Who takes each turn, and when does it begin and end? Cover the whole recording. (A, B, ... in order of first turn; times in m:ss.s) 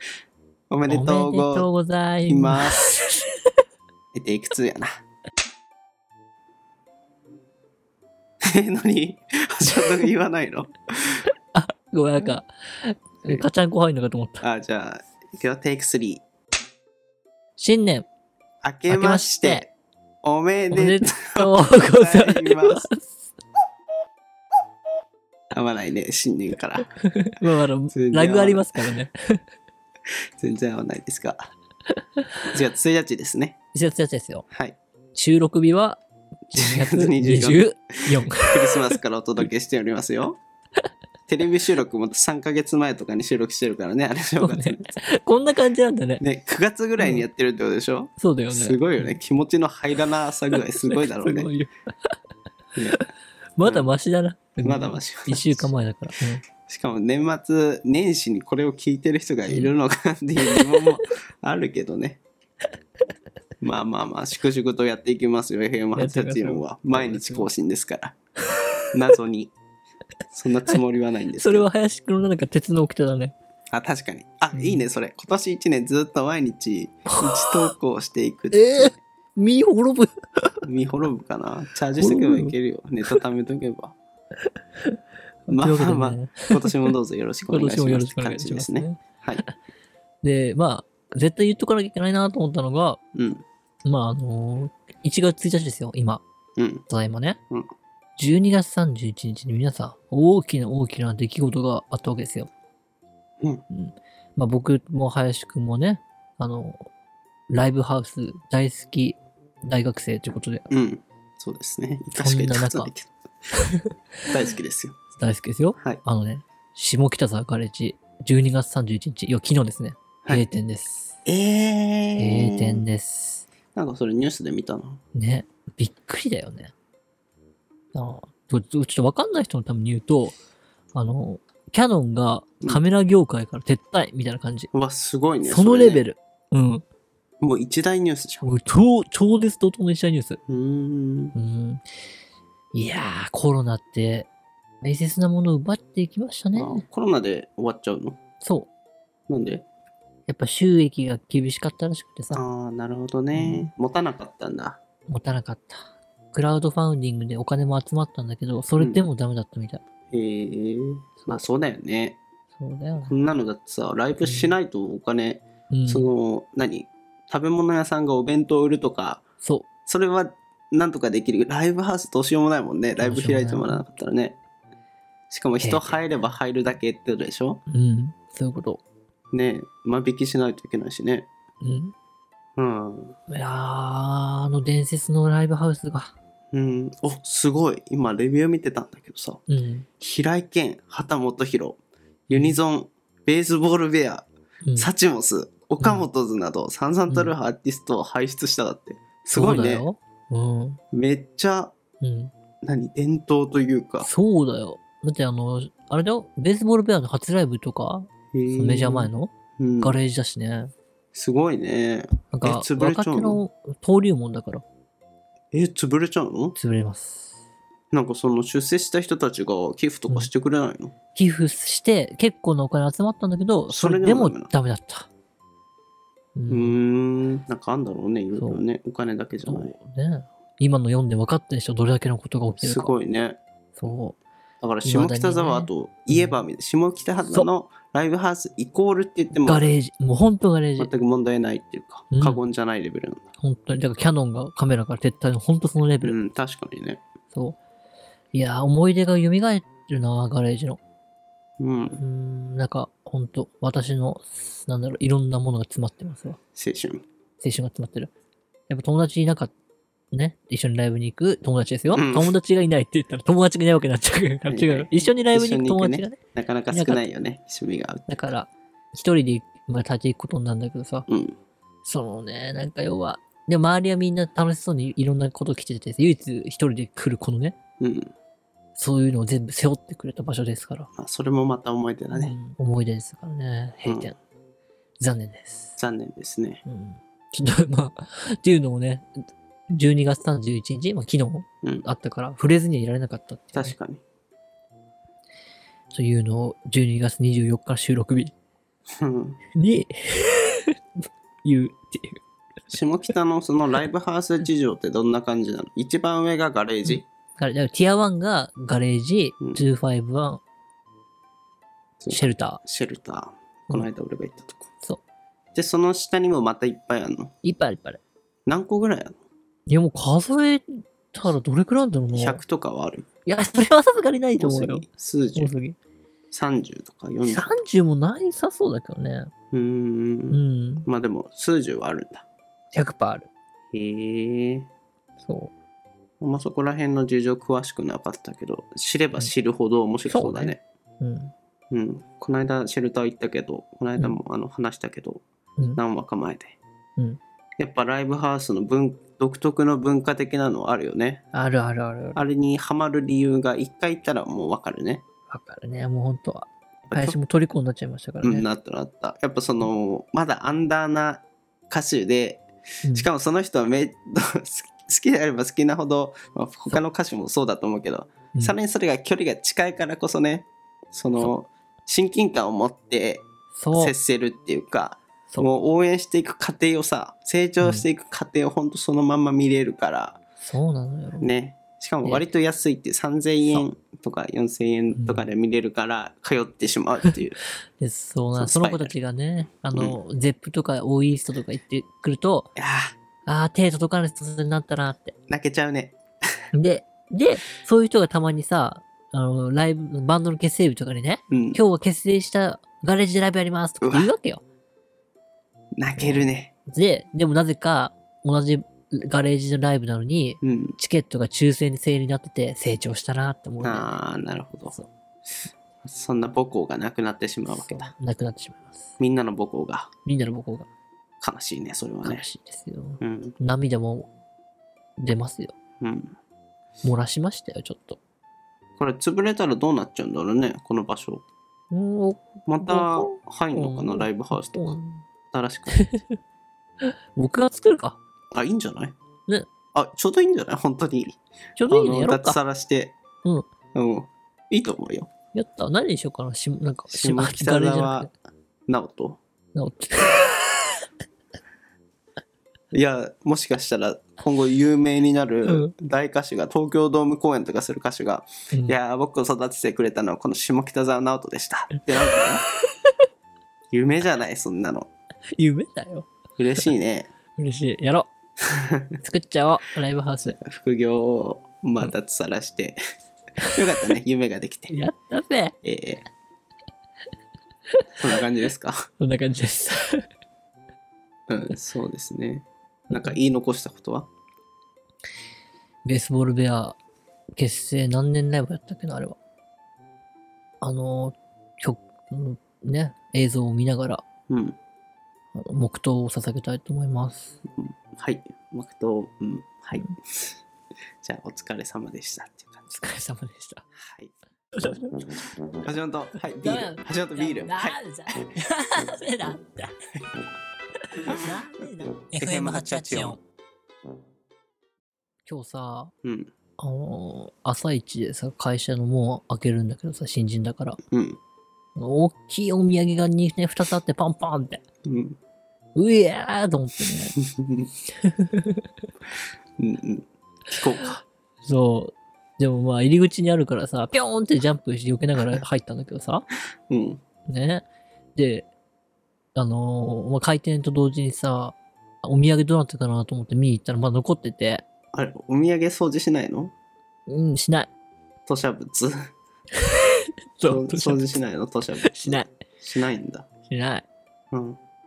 0:00.7-0:01.7 A
0:00.9-0:03.2 B
0:02.3-0:02.9 A
0:04.1-0:04.9 A
0:08.5-0:11.3 A
0:11.5-0:14.4 B
0:14.4-0:16.2 A
0:17.6-0:18.0 B
0:18.6-0:19.7 A
0:18.9-0:19.6 B
0:20.2-0:22.8 A
0:20.7-0:23.1 B
0:25.5-0:26.9 A
0:27.0-0:29.4 B
0:27.9-0:28.8 A
0:30.4-0:31.5 A
0:32.5-0:33.6 A
0:33.7-0:34.4 B
0:34.5-0:34.8 A
0:35.1-0:36.0 B
0:36.5-0:39.0 B
0:36.5-0:40.4 A
0:41.3-0:44.9 A
0:44.4-0:46.2 B
0:46.2-0:51.5 A
0:47.0-0:47.2 B
0:48.2-0:49.1 B
0:50.5-0:52.1 B
0:52.8-0:53.0 A
0:53.6-0:56.4 B
0:53.6-0:53.9 A
0:54.6-0:55.7 A
0:56.6-1:02.2 A
1:00.4-1:00.8 B
1:03.6-1:08.1 A
1:06.0-1:07.5 B
1:08.9-1:09.5 A
1:10.3-1:11.7 A
1:11.4-1:13.3 B
1:13.7-1:19.0 A
1:14.5-1:14.8 B
1:17.1-1:17.7 B
1:18.5-1:20.6 B
1:20.6-1:24.0 A
1:22.0-1:22.5 B
1:24.8-1:26.9 B
1:25.5-1:29.4 A
1:27.5-1:29.5 B
1:30.2-1:33.0 B
1:33.1-1:33.4 A
1:33.8-1:36.2 B
1:36.6-1:36.8 A
1:36.9-1:37.4 B
1:38.2-1:42.5 B
1:43.7-1:46.8 B
1:47.5-1:50.7 B
1:50.7-1:53.1 A
1:52.2-1:52.9 B
1:53.5-1:53.9 B
1:54.3-1:55.0 A
1:55.2-2:01.1 B
2:01.2-2:02.8 A
2:02.2-2:03.4 B
2:03.7-2:05.0 A
2:05.1-2:06.7 B
2:07.9-2:10.4 B
2:10.9-2:14.7 B
2:14.7-2:16.0 A
2:15.4-2:16.8 B
2:17.4-2:18.4 A
2:18.4-2:20.4 B
2:20.5-2:21.3 A
2:21.3-2:21.8 B
2:22.7-2:24.3 B
2:24.8-2:26.8 B
2:26.5-2:28.2 A
2:28.4-2:28.7 B
2:29.3-2:29.6 A
2:30.3-2:32.4 B
2:32.3-2:34.8 A
2:33.3-2:33.7 B
2:35.1-2:39.8 B
2:38.8-2:39.0 A
2:40.1-2:42.2 A
2:42.5-2:43.2 B
2:43.0-2:49.2 A
2:44.2-2:44.6 B
2:45.7-2:46.1 B
2:49.9-2:54.4 A
2:53.0-2:53.8 B
2:55.3-2:57.6 A
2:55.6-2:56.1 B
2:57.7-2:58.8 B
2:59.3-3:01.3 A
3:01.6-3:01.9 B
3:02.6-3:03.2 A
3:03.3-3:06.1 B
3:06.5-3:09.4 A
3:09.5-3:09.8 B
3:10.0-3:19.9 A
3:12.3-3:12.6 B
3:14.6-3:14.9 B
3:15.8-3:16.1 B
3:19.3-3:20.8 B
3:20.9-3:21.7 A
3:22.0-3:22.3 B
3:22.6-3:24.1 A
3:24.0-3:30.7 B
3:28.3-3:30.0 A
3:31.1-3:33.4 A
3:32.3-3:34.6 B
3:35.5-3:36.6 A
3:36.5-3:37.3 B
3:37.9-3:40.9 A
3:41.1-3:45.1 B
3:43.7-3:44.5 A
3:46.3-3:46.8 B
3:46.5-3:49.7 A
3:48.4-3:48.6 B
3:49.4-3:52.9 B
3:52.6-3:53.4 A
3:53.8-3:54.2 B
3:54.6-3:59.7 A
3:54.8-3:56.4 B
3:57.2-3:57.5 B
3:59.3-4:00.9 B
4:00.8-4:03.2 A
4:02.1-4:02.4 B
4:03.4-4:06.1 B
4:06.0-4:07.0 A
4:07.3-4:07.6 B
4:08.3-4:10.8 B
4:11.6-4:12.0 A
4:12.0-4:16.4 B
4:16.6-4:17.0 A
4:17.4-4:18.1 B
4:18.7-4:19.5 B
4:20.1-4:27.1 B
4:21.9-4:22.3 A
4:24.5-4:28.3 A
4:28.1-4:31.1 B
4:31.1-4:31.3 A
4:31.8-4:37.6 B
4:37.8-4:38.1 A
4:38.8-4:40.9 B
4:41.0-4:42.4 A
4:42.1-4:44.2 B
4:43.8-4:44.1 A
4:45.0-4:45.8 B
4:45.8-4:46.6 A
4:46.6-4:49.1 B
4:49.7-4:53.8 B
4:53.5-4:54.0 A
4:55.9-4:58.3 B
4:59.0-4:59.4 A
4:59.5-5:00.7 B
5:01.4-5:02.2 B
5:02.7-5:07.0 A
5:06.8-5:10.4 B
5:12.0-5:14.7 A
5:12.1-5:12.6 B
5:15.5-5:17.3 A
5:17.4-5:18.0 B
5:18.5-5:19.2 A
5:19.7-5:22.4 B
5:22.1-5:23.0 A
5:23.2-5:25.8 B
5:24.4-5:25.5 A
5:26.3-5:27.5 A
5:27.2-5:29.3 B
5:29.5-5:32.2 A
5:30.3-5:30.9 B
5:32.7-5:33.3 B
5:33.7-5:34.7 A
5:35.2-5:35.5 B
5:36.2-5:40.6 A
5:40.1-5:41.3 B
5:41.7-5:45.2 A
5:45.7-5:46.6 A
5:47.6-5:51.2 A
5:51.3-5:52.2 B
5:52.1-5:55.0 A
5:55.3-5:58.4 B
5:56.9-5:57.2 A
5:58.2-6:20.2 A
6:13.6-6:13.9 B
6:17.6-6:17.8 B
6:20.4-6:21.3 B
6:21.2-6:27.4 A
6:24.9-6:25.2 B
6:27.8-6:32.5 B
6:28.3-6:28.9 A
6:32.6-6:32.9 A
6:33.2-6:35.2 B
6:35.3-6:36.0 A
6:36.5-6:44.4 B
6:41.3-6:41.6 A
6:43.8-6:44.1 A
6:45.8-6:46.5 A
6:46.0-6:53.9 B
6:50.4-6:50.8 A
6:53.6-6:54.8 A
6:55.8-6:57.9 A
6:57.5-6:58.9 B
6:59.0-6:59.9 A
7:00.0-7:00.7 B
7:01.2-7:02.3 A
7:02.0-7:04.1 B
7:03.0-7:03.3 A
7:05.0-7:05.6 B
7:05.8-7:06.1 A
7:06.8-7:08.0 B
7:08.8-7:11.2 A
7:11.7-7:15.0 B
7:12.5-7:14.8 A
7:15.3-7:15.8 A
7:15.7-7:16.2 B
7:16.8-7:18.0 B
7:18.3-7:19.0 A
7:19.7-7:23.0 A
7:21.6-7:22.4 B
7:23.7-7:25.1 A
7:25.3-7:28.1 B
7:26.9-7:28.1 A
7:28.7-7:29.2 A
7:29.5-7:30.4 B
7:32.7-7:42.4 A
7:35.4-7:35.7 B
7:43.7-7:44.9 A
7:45.4-7:46.1 B
7:46.4-7:47.1 A
7:47.4-7:48.1 B
7:48.6-7:48.9 A
7:49.0-7:50.4 B
7:50.4-7:52.8 A
7:53.5-7:54.8 A
7:54.7-7:55.6 B
7:55.6-7:56.1 A
7:58.0-7:58.8 A
7:59.0-8:00.0 B
8:01.3-8:04.1 A
8:02.9-8:03.2 B
8:05.8-8:06.8 B
8:07.4-8:09.2 B
8:10.6-8:14.0 B
8:14.3-8:14.6 A
8:15.3-8:17.4 B
8:17.6-8:20.3 A
8:21.0-8:22.7 A
8:22.7-8:23.6 B
8:23.8-8:24.1 A
8:24.6-8:25.3 B
8:25.6-8:28.2 A
8:26.4-8:29.7 B
8:30.9-8:33.2 B
8:32.2-8:33.2 A
8:35.2-8:35.9 B
8:36.0-8:36.3 A
8:36.6-8:40.8 B
8:40.9-8:41.2 A
8:41.8-8:44.6 B
8:44.8-8:45.2 A
8:45.7-8:47.1 B
8:47.2-8:47.7 A
8:48.0-8:48.6 B
8:49.6-8:51.0 A
8:51.4-8:56.2 B
8:56.7-8:57.0 A
8:57.3-8:58.5 B
8:59.3-9:04.6 B
9:04.9-9:06.5 A
9:07.1-9:07.7 B
9:08.3-9:09.1 A
9:10.4-9:11.2 B
9:10.4-9:13.3 A
9:11.8-9:12.3 B
9:13.5-9:13.8 B
9:14.3-9:14.6 A